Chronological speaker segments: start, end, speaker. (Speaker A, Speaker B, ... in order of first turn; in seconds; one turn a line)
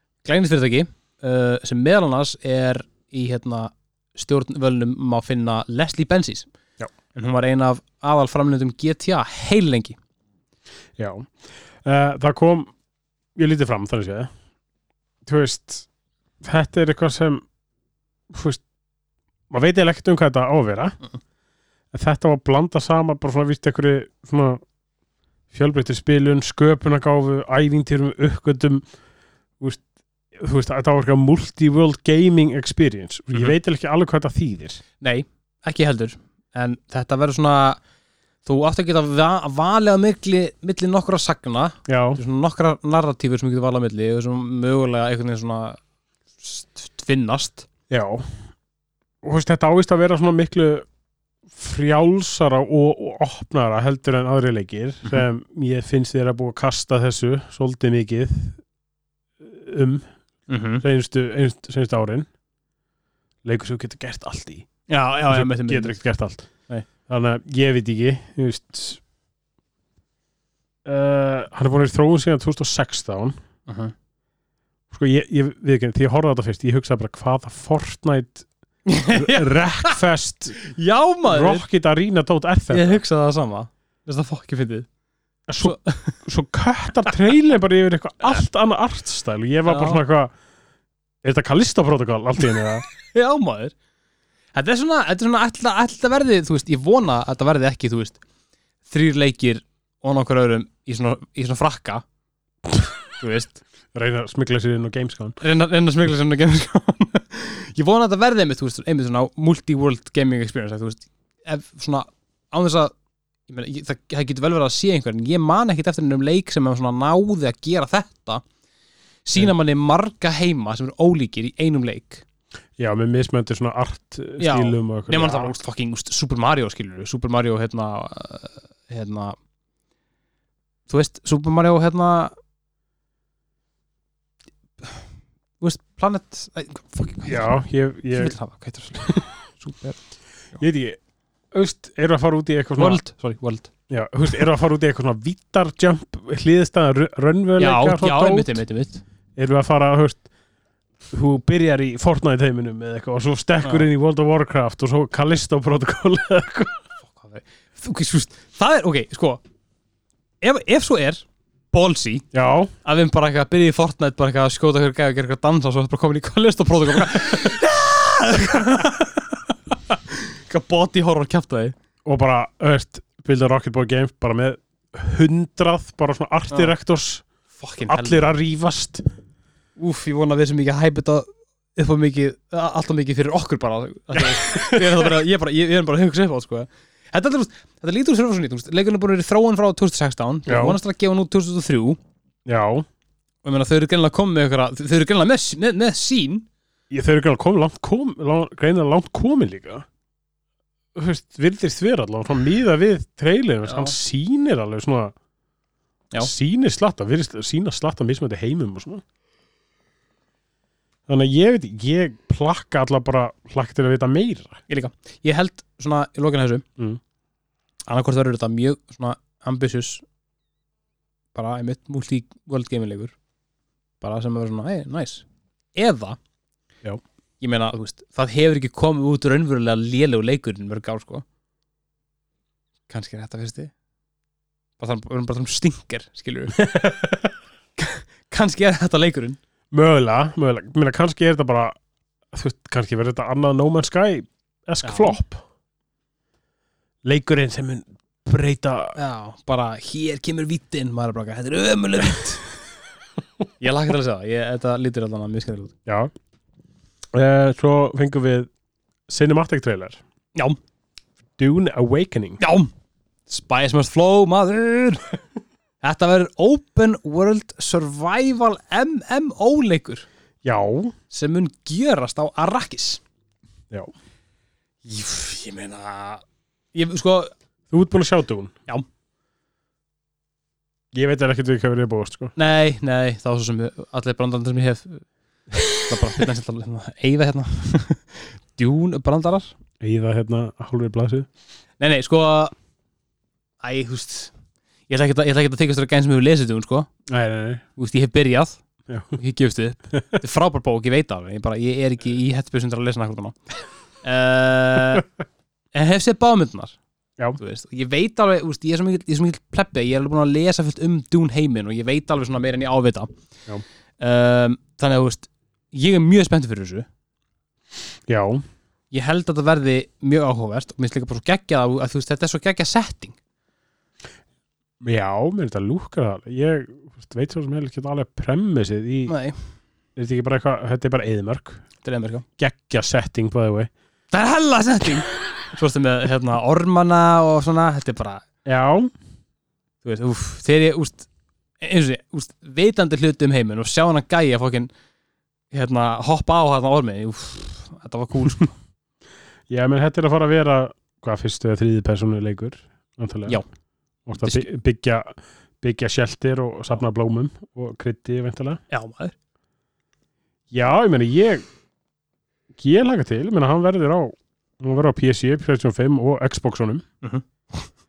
Speaker A: 0.2-6.5
Speaker A: 7.1-10.0
Speaker B: 11.0-11.3
Speaker B: 11.8-12.7
Speaker B: 13.4-14.3
Speaker B: 15.3-15.9
Speaker B: 16.4-17.4
Speaker B: 18.3-18.6
Speaker B: 19.5-21.0
Speaker B: 21.9-24.6
Speaker B: 25.5-28.8
Speaker B: 30.3-34.8
Speaker A: 35.0-37.8
Speaker A: 38.5-45.8
Speaker B: 41.9-42.2
Speaker A: 46.4-47.7
Speaker B: 47.9-48.3
Speaker B: 49.2-50.9
Speaker B: 51.5-58.6
Speaker B: 59.4-60.1
Speaker A: 60.5-60.8
Speaker B: 60.8-62.3
Speaker B: 63.5-64.7
Speaker A: 64.9-66.0
Speaker B: 65.3-66.5
Speaker B: 67.1-69.0
Speaker B: 70.8-73.4
Speaker A: 73.7-73.9
Speaker B: 74.9-78.5
Speaker A: 78.9-80.0
Speaker B: 79.1-80.7
Speaker A: 80.6-81.6
Speaker B: 81.3-83.0
Speaker A: 82.7-84.9
Speaker B: 85.5-90.3
Speaker A: 85.6-86.2
Speaker A: 89.7-90.0
Speaker B: 91.2-92.8
Speaker A: 93.0-93.8
Speaker A: 94.5-98.2
Speaker A: 98.9-102.0
Speaker A: 103.2-103.6
Speaker B: 103.9-105.4
Speaker A: 105.4-112.9
Speaker A: 113.5-118.4
Speaker A: 119.2-122.2
Speaker B: 122.8-125.6
Speaker A: 124.4-129.4
Speaker A: 130.9-132.3
Speaker A: 135.6-137.6
Speaker B: 137.2-138.3
Speaker A: 138.1-140.0
Speaker B: 140.6-141.0
Speaker B: 141.5-143.0
Speaker A: 142.8-143.7
Speaker B: 143.9-148.6
Speaker A: 147.6-149.0
Speaker B: 149.4-150.3
Speaker B: 151.1-156.8
Speaker A: 157.0-159.4
Speaker A: 160.4-162.3
Speaker B: 162.3-162.7
Speaker A: 162.8-171.8
Speaker B: 172.1-177.2
Speaker A: 177.6-178.3
Speaker B: 177.9-179.0
Speaker A: 179.8-192.0
Speaker B: 184.2-185.1
Speaker B: 190.5-190.8
Speaker B: 192.5-192.8
Speaker A: 193.4-196.5
Speaker B: 196.9-199.9
Speaker B: 200.9-205.1
Speaker A: 203.7-203.9
Speaker B: 206.2-209.0
Speaker B: 211.1-214.6
Speaker A: 214.7-216.7
Speaker A: 217.9-220.0
Speaker A: 221.3-223.2
Speaker A: 224.0-226.2
Speaker A: 227.4-231.2
Speaker A: 232.9-233.7
Speaker A: 234.8-236.6
Speaker B: 236.6-237.3
Speaker A: 237.8-239.4
Speaker B: 239.7-241.8
Speaker B: 242.3-245.4
Speaker A: 244.8-245.2
Speaker B: 247.0-249.0
Speaker A: 249.0-252.5
Speaker A: 253.6-255.7
Speaker B: 255.9-256.1
Speaker B: 257.1-258.5
Speaker B: 259.1-260.0
Speaker B: 261.4-262.4
Speaker A: 262.4-262.7
Speaker A: 263.3-265.1
Speaker A: 265.8-270.1
Speaker B: 270.4-270.9
Speaker A: 271.1-273.0
Speaker A: 274.9-276.2
Speaker A: 276.7-277.3
Speaker B: 277.7-278.5
Speaker B: 280.9-282.3
Speaker A: 282.4-285.1
Speaker A: 285.6-289.6
Speaker B: 289.8-291.3
Speaker A: 291.8-292.5
Speaker A: 293.6-294.3
Speaker A: 294.9-296.9
Speaker B: 297.1-297.6
Speaker A: 297.8-298.6
Speaker B: 298.9-299.2
Speaker A: 299.2-303.4
Speaker B: 299.9-300.2
Speaker A: 304.0-305.1
Speaker A: 305.7-306.8
Speaker A: 307.4-313.1
Speaker A: 314.0-316.9
Speaker B: 318.1-318.4
Speaker A: 318.9-323.2
Speaker B: 324.8-329.1
Speaker A: 329.1-329.4
Speaker B: 330.0-331.6
Speaker A: 331.8-332.2
Speaker B: 332.4-333.7
Speaker A: 334.1-338.2
Speaker B: 338.5-338.9
Speaker A: 339.8-341.1
Speaker A: 341.6-344.7
Speaker A: 345.5-348.6
Speaker B: 349.5-353.4
Speaker B: 354.1-358.6
Speaker A: 358.7-359.1
Speaker B: 360.5-361.4
Speaker B: 362.6-366.8
Speaker A: 367.0-367.7